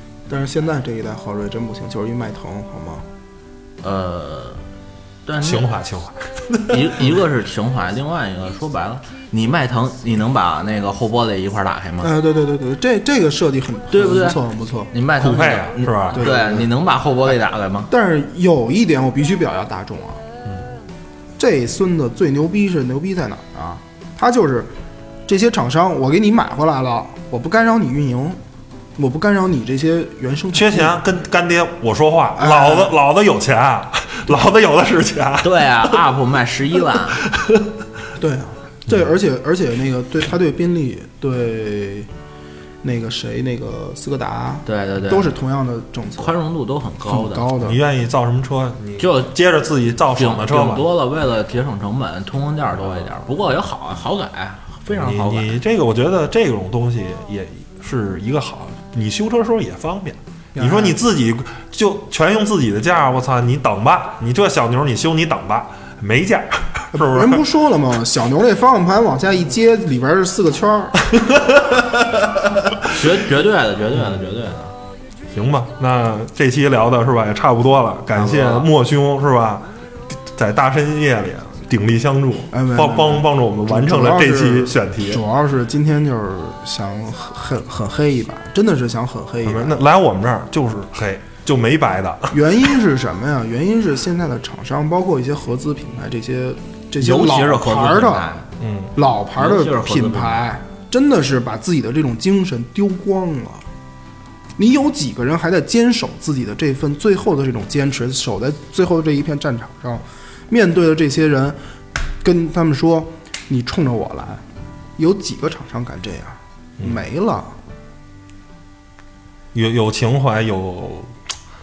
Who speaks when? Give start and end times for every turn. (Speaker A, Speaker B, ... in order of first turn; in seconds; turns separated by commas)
Speaker A: 0.3-3.0, Speaker B: 3.8-4.6, Speaker B: 5.2-5.7, Speaker C: 5.4-7.0, Speaker B: 6.7-12.1, Speaker A: 12.0-14.9, Speaker B: 13.9-14.4, Speaker B: 14.9-17.9, Speaker C: 15.2-16.3, Speaker A: 16.1-16.7, Speaker A: 17.9-20.2, Speaker A: 21.4-24.7, Speaker A: 25.2-28.4, Speaker A: 28.9-30.9, Speaker C: 30.5-36.0, Speaker A: 32.4-32.9, Speaker B: 35.4-37.2, Speaker C: 37.3-37.7, Speaker A: 38.2-42.1, Speaker A: 42.8-46.3, Speaker B: 44.6-45.3, Speaker B: 46.2-47.5, Speaker A: 47.1-47.8, Speaker C: 47.6-50.9, Speaker B: 49.0-49.3, Speaker B: 50.1-55.6, Speaker C: 54.9-67.4, Speaker A: 60.5-61.0, Speaker A: 66.9-71.0, Speaker C: 71.1-72.7, Speaker B: 72.9-74.7, Speaker C: 74.0-74.2, Speaker C: 75.3-79.6, Speaker A: 78.2-78.6, Speaker C: 80.3-85.2, Speaker A: 82.5-89.8, Speaker C: 89.4-92.8, Speaker A: 92.3-98.3, Speaker B: 97.0-98.5, Speaker C: 98.6-99.0, Speaker A: 99.0-103.6, Speaker B: 99.3-100.5, Speaker A: 104.6-111.6, Speaker A: 112.2-114.4, Speaker A: 115.0-117.5, Speaker C: 119.5-121.1